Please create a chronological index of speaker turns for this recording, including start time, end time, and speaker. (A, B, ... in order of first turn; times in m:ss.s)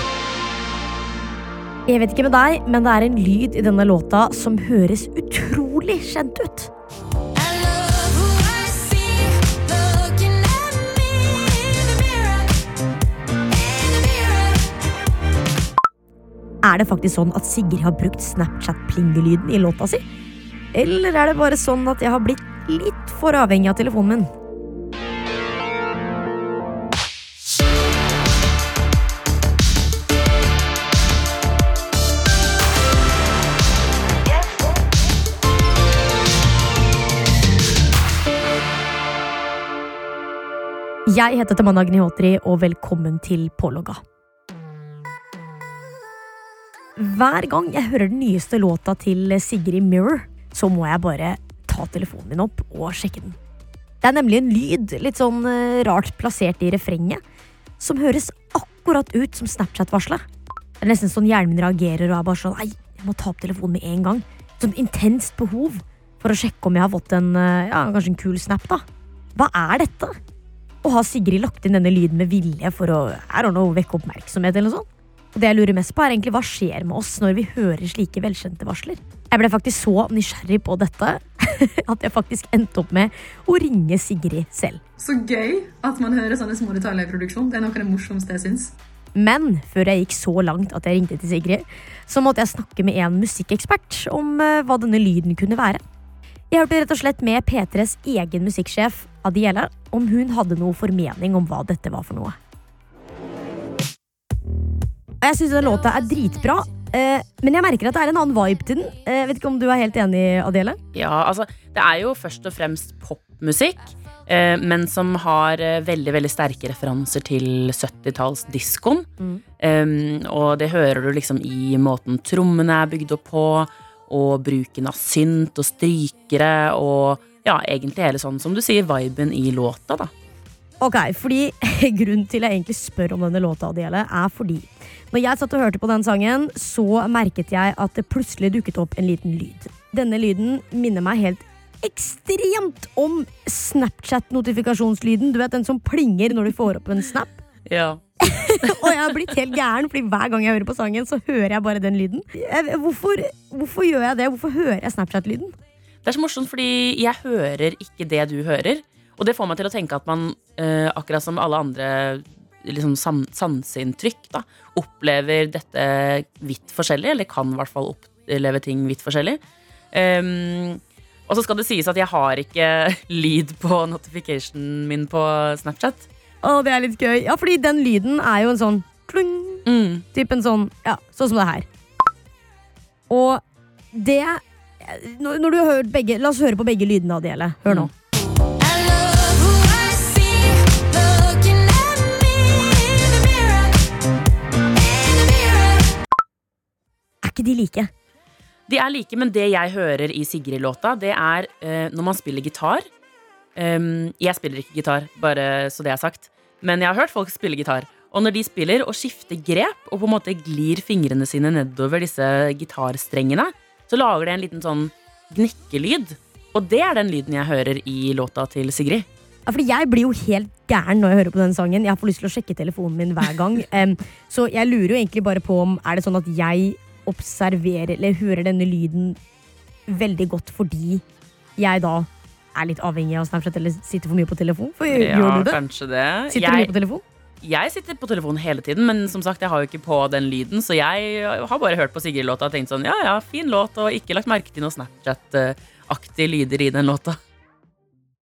0:01.9-0:06.7 A
0:16.6-0:20.0 A
0:20.7-0:24.3 A
0:41.1-0:44.0 A
0:47.0-0:53.4 A
0:54.0-0:57.2 A
0:57.8-1:00.2 A
1:00.8-1:10.2 A
1:10.8-1:24.8 A
1:25.0-1:28.8 B
1:29.2-1:35.8 A
1:36.5-1:42.4 A
1:45.2-1:50.8 A
1:50.9-1:59.1 C
1:59.6-2:10.1 C
2:10.8-2:27.4 A
2:27.7-2:28.0 C
2:28.2-2:35.6 A
2:28.7-2:29.0 C
2:36.0-2:49.4 C
2:49.9-2:56.1 C
2:56.4-3:01.7 A
2:59.7-3:00.0 C
3:03.1-3:03.4 A
3:03.9-3:07.9 A
3:09.0-3:10.5 C
3:17.2-3:17.9 A
3:18.7-3:22.9 C
3:23.6-3:39.1 C
3:39.5-3:49.2 A
3:49.9-3:51.0 A
3:51.6-3:55.6 A
3:54.9-3:56.8 C
3:56.3-3:57.0 A
3:57.4-4:07.2 C